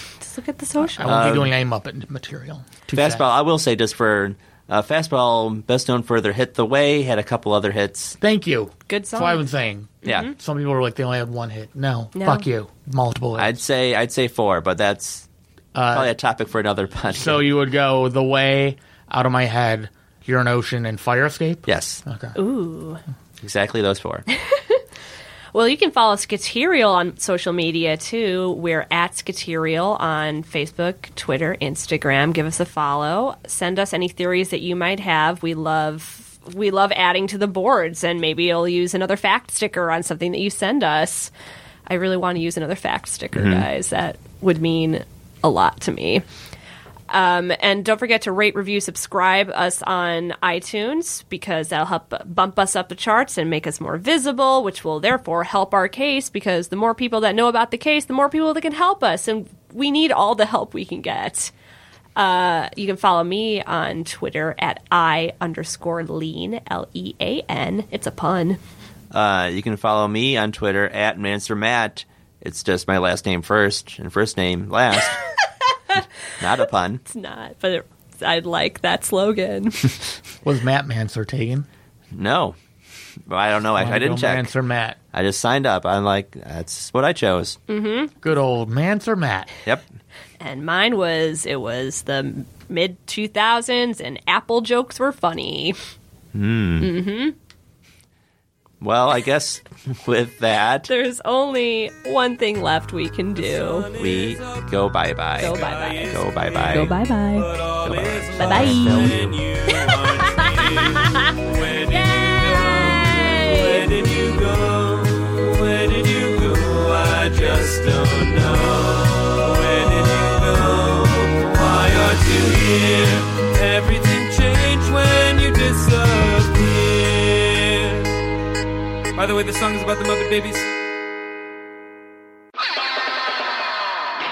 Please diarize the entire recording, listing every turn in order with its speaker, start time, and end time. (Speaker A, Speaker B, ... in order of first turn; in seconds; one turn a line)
Speaker A: 0.2-1.0
Speaker B: 0.9-3.2
Speaker C: 1.0-1.5
Speaker C: 2.9-8.2
Speaker B: 8.2-13.6
Speaker A: 8.9-9.4
Speaker A: 10.0-10.3
Speaker A: 12.1-12.4
Speaker C: 13.4-15.2
Speaker B: 15.7-16.1
Speaker C: 15.9-17.5
Speaker B: 17.1-22.4
Speaker C: 21.6-22.0
Speaker A: 22.3-23.0
Speaker C: 23.4-24.2
Speaker A: 24.4-24.8
Speaker A: 25.5-41.3
Speaker A: 41.9-46.2
Speaker C: 43.3-43.6
Speaker A: 47.1-61.5
Speaker A: 62.1-68.6
Speaker C: 69.1-75.2
Speaker C: 76.4-77.0
Speaker A: 77.0-80.0
Speaker B: 80.4-81.7
Speaker C: 82.1-82.5
Speaker C: 83.3-84.5
Speaker B: 83.8-85.0
Speaker C: 85.1-87.6
Speaker A: 87.7-88.1
Speaker B: 88.2-89.5
Speaker A: 90.4-95.8
Speaker C: 96.3-96.9
Speaker A: 96.8-97.3
Speaker C: 98.8-100.9
Speaker A: 100.9-103.9
Speaker D: 103.4-104.7
Speaker C: 104.0-106.9
Speaker A: 105.4-107.5
Speaker D: 105.4-128.0
Speaker C: 107.8-110.4
Speaker A: 108.4-113.9
Speaker C: 117.3-117.7
Speaker C: 118.3-120.8
Speaker D: 129.2-130.7